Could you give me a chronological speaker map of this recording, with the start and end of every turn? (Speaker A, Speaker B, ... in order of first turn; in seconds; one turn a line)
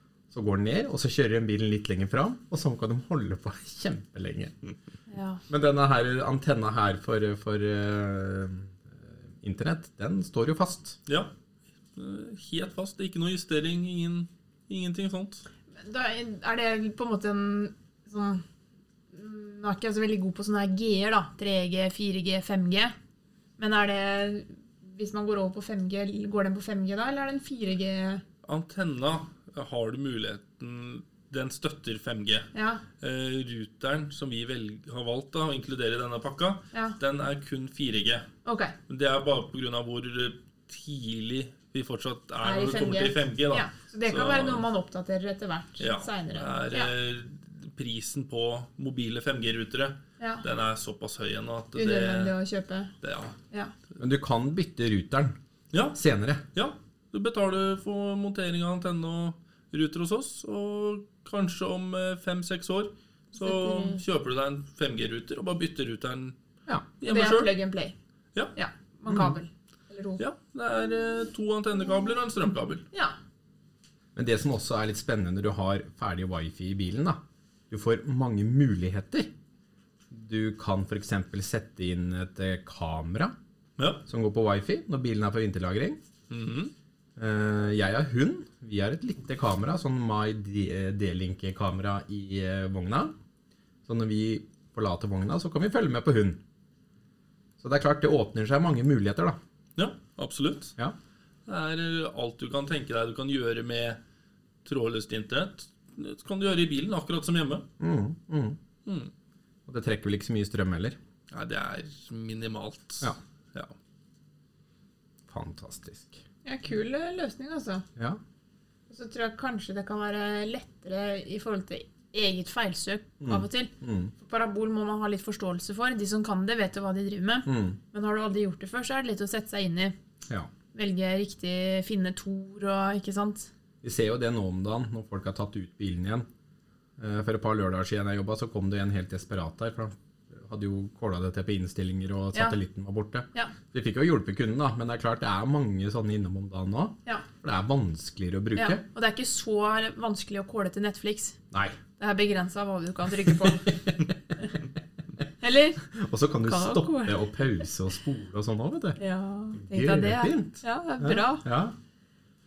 Speaker A: 0.3-4.5
Speaker B: 5.1-5.4
Speaker A: 5.5-11.0
Speaker C: 11.1-11.3
Speaker C: 11.9-15.4
Speaker B: 15.8-18.4
Speaker B: 19.1-22.9
Speaker B: 23.6-28.2
Speaker C: 28.4-32.5
Speaker B: 32.5-32.8
Speaker C: 33.0-38.3
Speaker B: 38.4-38.7
Speaker C: 38.9-44.6
Speaker B: 42.4-46.9
Speaker C: 45.8-52.3
Speaker B: 51.7-52.9
Speaker C: 53.0-53.4
Speaker A: 54.0-55.4
Speaker C: 55.7-56.0
Speaker A: 55.9-56.4
Speaker C: 56.5-66.3
Speaker B: 63.3-64.0
Speaker C: 67.0-67.5
Speaker B: 67.0-67.9
Speaker B: 68.5-70.2
Speaker C: 70.2-72.8
Speaker A: 74.2-77.2
Speaker A: 77.7-79.3
Speaker A: 80.1-83.3
Speaker C: 83.8-84.0
Speaker A: 84.1-86.0
Speaker C: 86.3-86.7
Speaker A: 87.2-93.1
Speaker A: 93.9-96.4
Speaker A: 97.6-99.4
Speaker C: 99.8-100.7
Speaker C: 101.5-104.0
Speaker C: 104.6-107.7
Speaker A: 107.8-108.6
Speaker C: 108.8-109.1
Speaker A: 109.7-111.0
Speaker C: 111.3-113.7
Speaker A: 115.3-116.2
Speaker B: 116.4-117.8
Speaker B: 118.9-129.9
Speaker A: 123.2-124.1
Speaker A: 127.5-127.8
Speaker B: 130.7-133.5
Speaker A: 133.8-136.3
Speaker A: 137.0-148.8
Speaker B: 148.6-151.4
Speaker A: 151.5-151.8
Speaker B: 152.0-153.8
Speaker A: 153.4-153.9
Speaker B: 155.4-155.8
Speaker A: 155.9-159.0
Speaker B: 156.4-157.4
Speaker B: 159.0-161.4
Speaker A: 159.6-161.7